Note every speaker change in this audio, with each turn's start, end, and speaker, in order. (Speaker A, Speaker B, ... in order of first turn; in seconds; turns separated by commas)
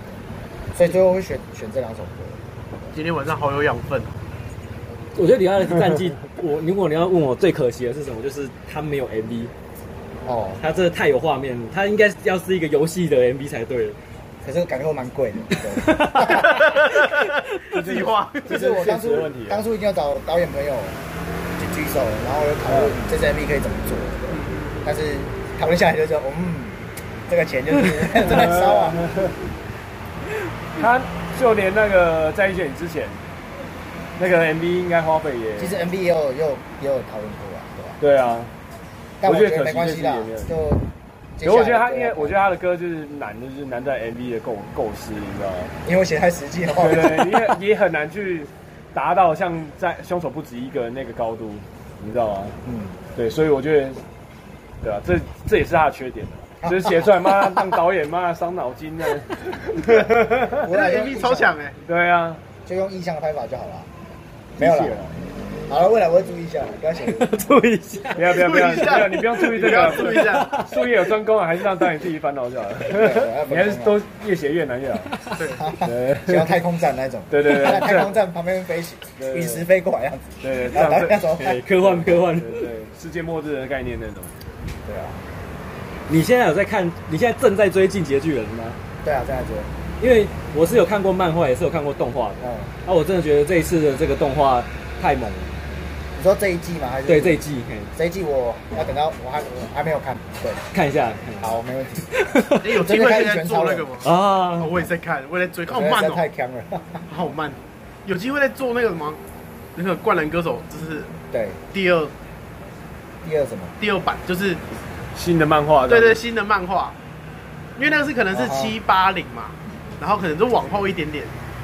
Speaker A: 0.7-2.4, Speaker B: 2.9-4.1, Speaker C: 5.2-9.5, Speaker A: 10.2-10.6, Speaker C: 10.6-14.0, Speaker A: 14.4-16.7, Speaker C: 15.7-16.7, Speaker B: 16.2-18.6, Speaker D: 17.7-19.6, Speaker A: 18.5-21.0, Speaker A: 21.6-29.0, Speaker D: 22.7-23.0, Speaker B: 24.3-24.8, Speaker D: 28.1-29.4, Speaker D: 30.8-33.2, Speaker D: 34.2-35.8, Speaker A: 35.6-38.0, Speaker D: 38.0-38.5, Speaker A: 39.2-40.8, Speaker D: 39.2-40.7, Speaker A: 41.4-42.4, Speaker D: 41.4-45.8, Speaker A: 45.9-47.5, Speaker D: 46.7-52.6, Speaker A: 52.6-53.0, Speaker D: 53.1-54.0, Speaker D: 54.8-60.7, Speaker A: 56.6-57.1, Speaker A: 60.5-61.5, Speaker B: 60.6-61.8, Speaker D: 61.8-62.4, Speaker A: 62.6-63.9, Speaker A: 64.6-65.1, Speaker C: 64.6-65.0, Speaker A: 65.7-67.4, Speaker C: 67.1-68.3, Speaker D: 68.1-75.2, Speaker B: 68.3-70.6, Speaker C: 69.1-70.7, Speaker A: 72.9-74.0, Speaker B: 75.4-75.7, Speaker A: 75.6-81.6, Speaker D: 75.8-76.6, Speaker D: 77.3-78.2, Speaker D: 79.2-79.7, Speaker D: 80.4-84.3, Speaker C: 81.4-82.7, Speaker A: 84.8-85.2, Speaker C: 86.1-88.8, Speaker A: 89.0-89.7, Speaker C: 90.0-95.5, Speaker A: 92.4-92.7, Speaker A: 96.2-97.4, Speaker C: 97.1-97.9, Speaker A: 98.0-100.6, Speaker C: 100.7-101.5, Speaker A: 101.4-104.0, Speaker C: 102.1-102.8, Speaker B: 102.6-106.2, Speaker C: 104.0-104.7, Speaker A: 105.7-107.1, Speaker B: 107.1-109.2, Speaker B: 109.8-111.1, Speaker A: 111.3-111.6, Speaker B: 111.7-112.1, Speaker A: 113.2-113.8, Speaker B: 113.8-114.6, Speaker D: 115.2-116.2, Speaker B: 115.9-117.0, Speaker B: 117.8-121.3, Speaker A: 118.3-118.7